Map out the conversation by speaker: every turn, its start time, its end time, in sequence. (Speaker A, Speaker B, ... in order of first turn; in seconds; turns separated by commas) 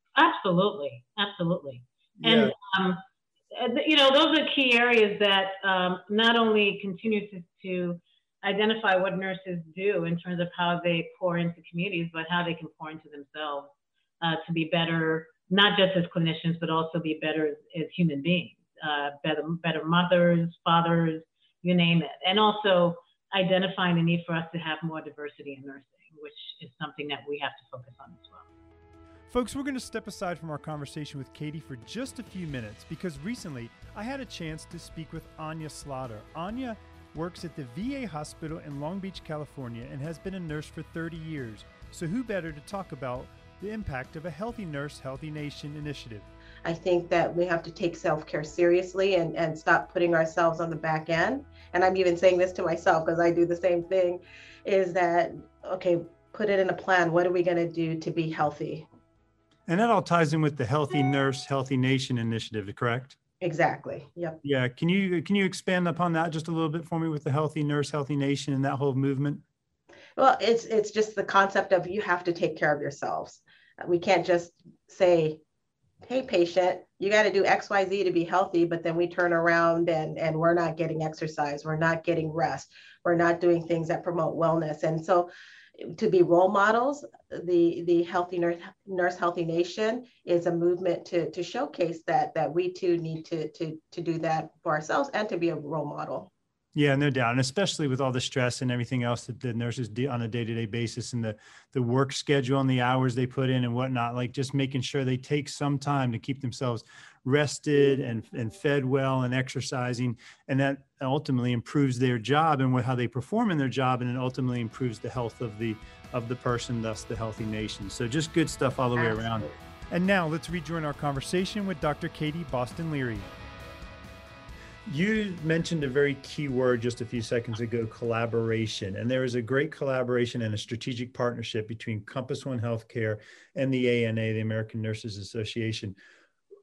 Speaker A: 0.2-28.5, Speaker B: 2.2-2.5, Speaker B: 29.3-46.3, Speaker C: 46.6-58.9, Speaker B: 59.7-63.2, Speaker C: 63.4-64.4, Speaker B: 64.4-69.4, Speaker C: 70.2-75.4, Speaker C: 76.0-96.3, Speaker B: 96.8-123.3, Speaker C: 119.0-119.5, Speaker B: 124.9-136.0